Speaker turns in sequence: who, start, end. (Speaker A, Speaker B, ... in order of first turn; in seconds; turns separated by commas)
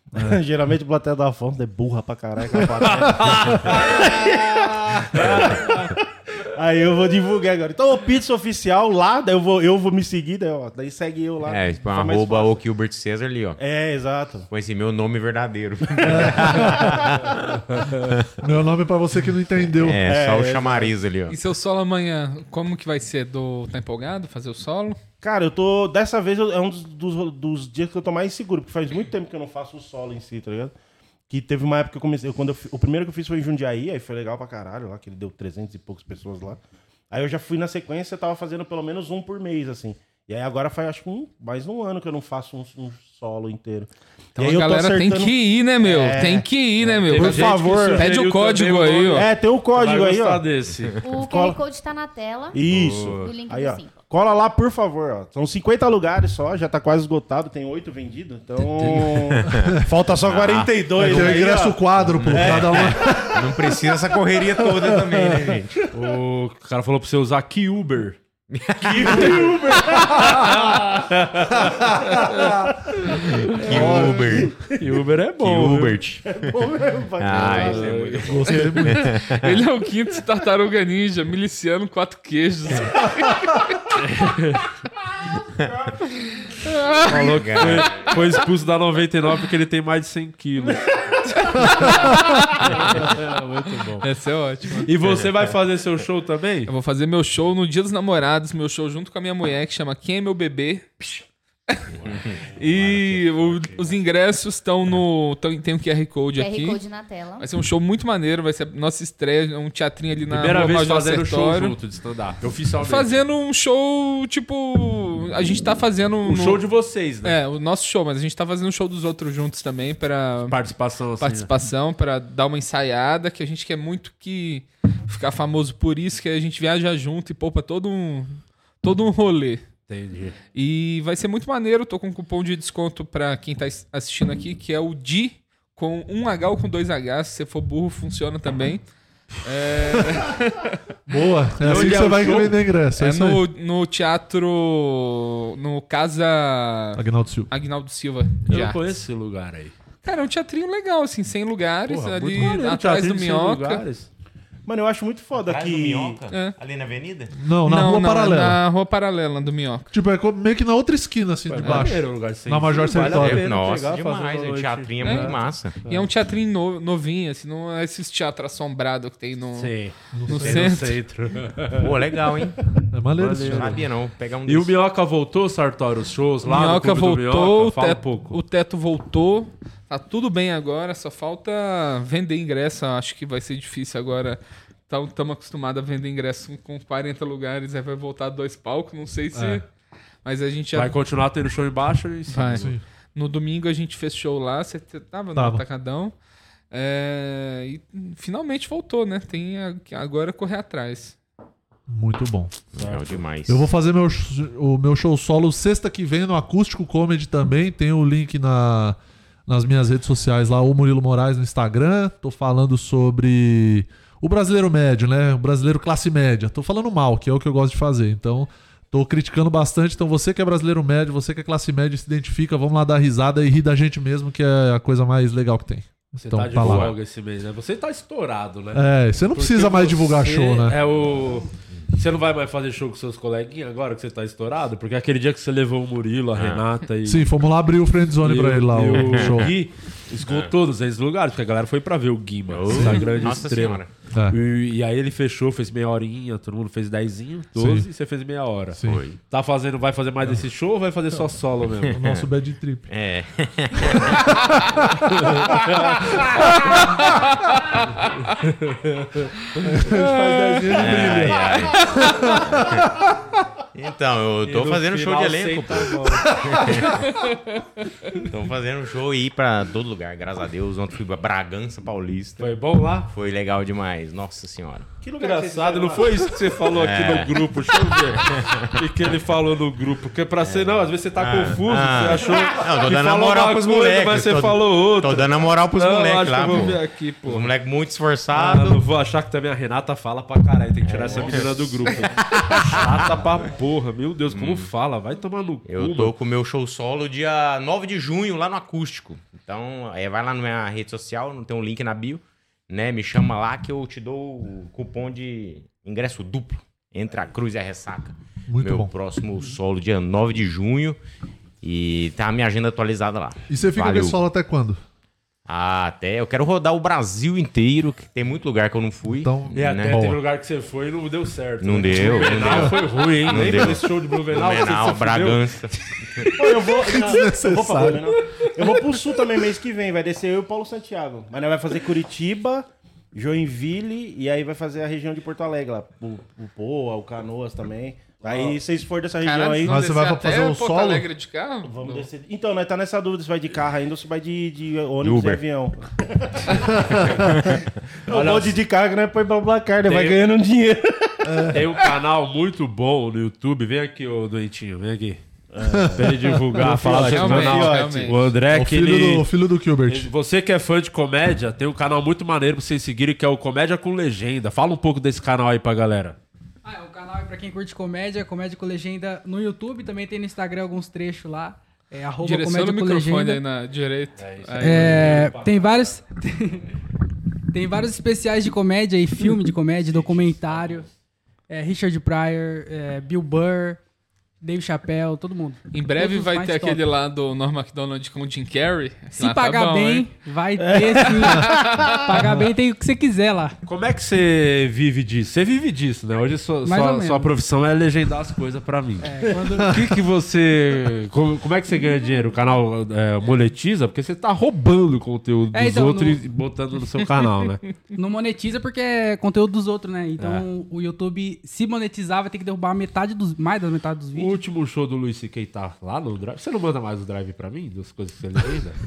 Speaker A: 0.1-12.6, Speaker B: 2.8-4.1, Speaker B: 5.2-5.6, Speaker C: 11.5-13.6, Speaker A: 13.6-14.5, Speaker C: 14.5-17.4, Speaker D: 16.1-17.1, Speaker A: 16.2-16.8, Speaker B: 17.7-18.1, Speaker D: 18.4-20.0, Speaker C: 19.8-21.4, Speaker A: 20.0-20.9, Speaker E: 21.3-25.0, Speaker A: 25.2-30.7, Speaker A: 31.3-48.1, Speaker E: 44.4-49.3, Speaker B: 47.0-51.0, Speaker A: 49.1-50.4, Speaker F: 51.0-52.6, Speaker A: 51.2-51.6, Speaker A: 52.5-63.4, Speaker B: 52.7-53.3, Speaker F: 53.2-53.9, Speaker C: 59.3-61.4, Speaker D: 61.0-63.4, Speaker C: 62.1-65.8, Speaker A: 64.7-65.5, Speaker B: 65.9-68.2, Speaker C: 68.5-69.4, Speaker A: 68.8-71.0, Speaker B: 69.0-72.1, Speaker A: 72.2-72.7, Speaker C: 73.4-74.5, Speaker A: 73.7-74.2, Speaker B: 73.8-74.0, Speaker B: 74.7-76.0, Speaker C: 75.4-76.2, Speaker A: 76.3-78.1, Speaker C: 77.2-79.6, Speaker B: 77.3-78.8, Speaker D: 78.3-79.1, Speaker E: 79.4-83.8, Speaker B: 84.0-84.6, Speaker B: 87.1-90.9, Speaker C: 87.2-88.1, Speaker E: 91.4-93.0, Speaker B: 91.6-91.9, Speaker B: 92.6-94.1, Speaker E: 94.0-94.9, Speaker B: 94.8-96.7, Speaker E: 96.7-100.9, Speaker C: 102.0-103.7, Speaker E: 102.6-106.8, Speaker F: 106.3-107.5, Speaker E: 107.4-111.8, Speaker B: 110.3-113.2, Speaker E: 112.8-116.6, Speaker B: 116.2-117.3, Speaker E: 117.2-120.6, Speaker B: 120.5-121.5, Speaker E: 121.2-129.6, Speaker B: 129.9-130.4, Speaker E: 130.5-138.8, Speaker E: 139.4-140.8, Speaker D: 141.1-143.4, Speaker B: 141.6-142.6, Speaker E: 141.8-142.2, Speaker E: 143.0-148.9, Speaker D: 147.0-147.5, Speaker B: 148.5-149.7, Speaker E: 150.1-153.8, Speaker B: 151.9-154.1, Speaker A: 154.7-156.2, Speaker C: 155.3-157.3, Speaker E: 156.3-156.6, Speaker D: 157.3-158.6, Speaker E: 157.7-159.9, Speaker D: 159.9-163.5, Speaker B: 161.5-166.1, Speaker C: 163.0-165.8, Speaker E: 165.0-169.7, Speaker B: 169.6-171.9, Speaker D: 170.1-170.8, Speaker E: 170.3-171.0, Speaker C: 171.8-172.6, Speaker D: 172.9-173.8, Speaker B: 173.2-173.8, Speaker C: 173.4-174.7, Speaker B: 174.4-178.4, Speaker E: 176.4-189.7, Speaker D: 189.3-189.6, Speaker E: 190.2-191.0, Speaker B: 190.7-192.7, Speaker E: 192.3-196.1, Speaker D: 192.5-192.8, Speaker D: 195.3-195.6, Speaker E: 196.7-201.2, Speaker D: 201.9-202.5, Speaker C: 202.8-203.6, Speaker B: 202.8-203.2, Speaker D: 203.5-226.9, Speaker B: 226.2-237.3, Speaker C: 226.6-226.9, Speaker D: 228.7-230.8, Speaker C: 236.4-236.6, Speaker D: 237.1-239.5, Speaker B: 238.2-252.0, Speaker C: 239.0-239.5, Speaker C: 242.5-243.9, Speaker D: 247.6-247.9, Speaker D: 248.7-249.0, Speaker C: 248.8-249.2, Speaker D: 251.9-252.9, Speaker C: 252.9-254.3, Speaker B: 255.2-256.1, Speaker B: 258.4-261.3, Speaker D: 259.6-262.9, Speaker E: 259.9-260.7, Speaker C: 260.8-262.0, Speaker C: 262.5-262.8, Speaker C: 263.7-267.1, Speaker B: 264.4-266.4, Speaker C: 268.2-272.5, Speaker B: 272.4-273.1, Speaker C: 273.1-274.9, Speaker A: 275.0-276.4, Speaker B: 275.2-287.5, Speaker C: 276.8-277.5, Speaker C: 278.1-278.8, Speaker C: 280.4-288.8, Speaker B: 288.3-296.1, Speaker C: 290.9-293.1, Speaker C: 294.3-294.7, Speaker C: 295.7-311.0, Speaker D: 308.5-308.9, Speaker C: 311.6-314.2, Speaker D: 313.5-314.8, Speaker C: 315.5-320.0, Speaker D: 319.2-320.2, Speaker B: 319.5-325.4, Speaker C: 321.6-326.3, Speaker D: 322.4-322.7, Speaker A: 326.4-339.8, Speaker D: 326.8-328.0, Speaker B: 338.2-338.6, Speaker E: 339.2-342.1, Speaker D: 339.7-341.1, Speaker A: 341.6-351.5, Speaker C: 345.0-345.4, Speaker C: 347.2-347.6, Speaker B: 348.1-348.6, Speaker B: 349.8-350.2, Speaker D: 351.2-351.6, Speaker B: 351.5-355.2, Speaker A: 355.5-358.1, Speaker D: 355.7-356.9, Speaker B: 355.9-359.3, Speaker E: 357.1-358.3, Speaker D: 358.5-360.1, Speaker B: 359.9-366.2, Speaker G: 366.6-373.4, Speaker E: 372.2-375.2, Speaker B: 374.2-375.9, Speaker G: 374.6-376.6, Speaker G: 377.5-380.9, Speaker B: 379.8-380.9, Speaker G: 381.5-383.8, Speaker G: 384.4-386.8, Speaker E: 385.7-390.1, Speaker G: 389.2-393.6, Speaker E: 390.9-392.1, Speaker D: 392.2-392.5, Speaker B: 393.6-407.6, Speaker G: 396.6-397.3, Speaker G: 399.0-399.8, Speaker D: 399.6-399.9, Speaker G: 405.5-406.2, Speaker G: 408.0-414.4, Speaker B: 410.2-410.5, Speaker B: 414.1-418.8